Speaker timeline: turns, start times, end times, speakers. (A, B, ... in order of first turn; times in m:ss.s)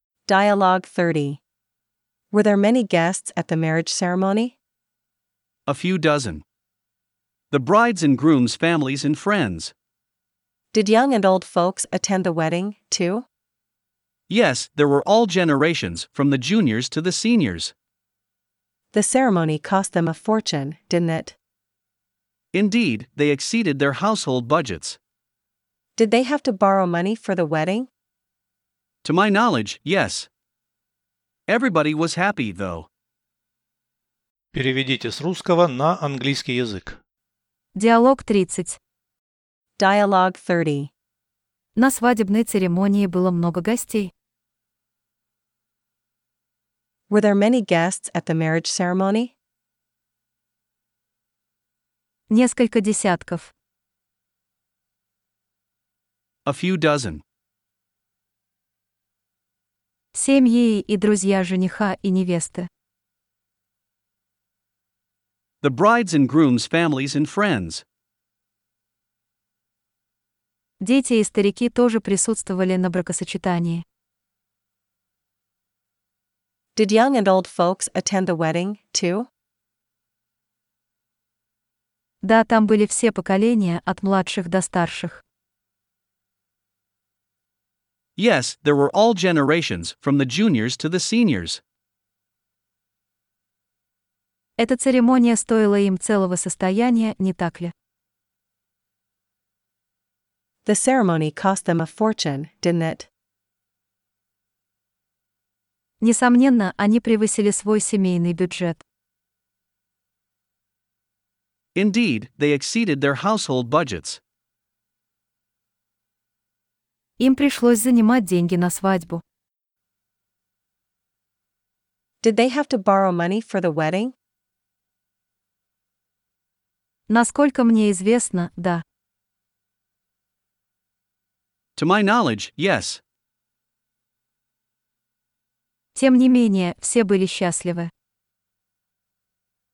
0:00.2-0:01.4 A
0:02.3-0:04.6 A
0:05.7-0:06.4 B
0:07.5-0:09.7 B
0:10.7-0:13.2 A
0:14.3-0:17.7 B
0:18.9-0:21.4 A
0:22.5-0:25.0 B
0:26.0-0:27.9 A
0:29.0-0:30.3 B
0:31.5-0:32.9 B
0:34.5-0:37.0 C
0:37.7-0:38.8 D
0:39.8-0:40.9 A
0:41.8-0:44.1 D
0:47.1-0:49.3 A
0:52.3-0:53.5 D
0:56.4-0:57.2 B
1:00.1-1:02.7 D
1:05.6-1:07.8 B
1:10.8-1:13.8 D
1:16.7-1:19.3 A
1:22.2-1:25.2 D
1:28.2-1:31.6 B
1:34.6-1:37.7 D
1:40.6-1:43.1 A
1:46.0-1:48.8 D
1:51.7-1:54.2 B
1:57.2-1:59.2 D
2:02.2-2:04.1 A
2:07.1-2:08.8 D
2:11.8-2:13.0 B
2:15.9-2:17.9 D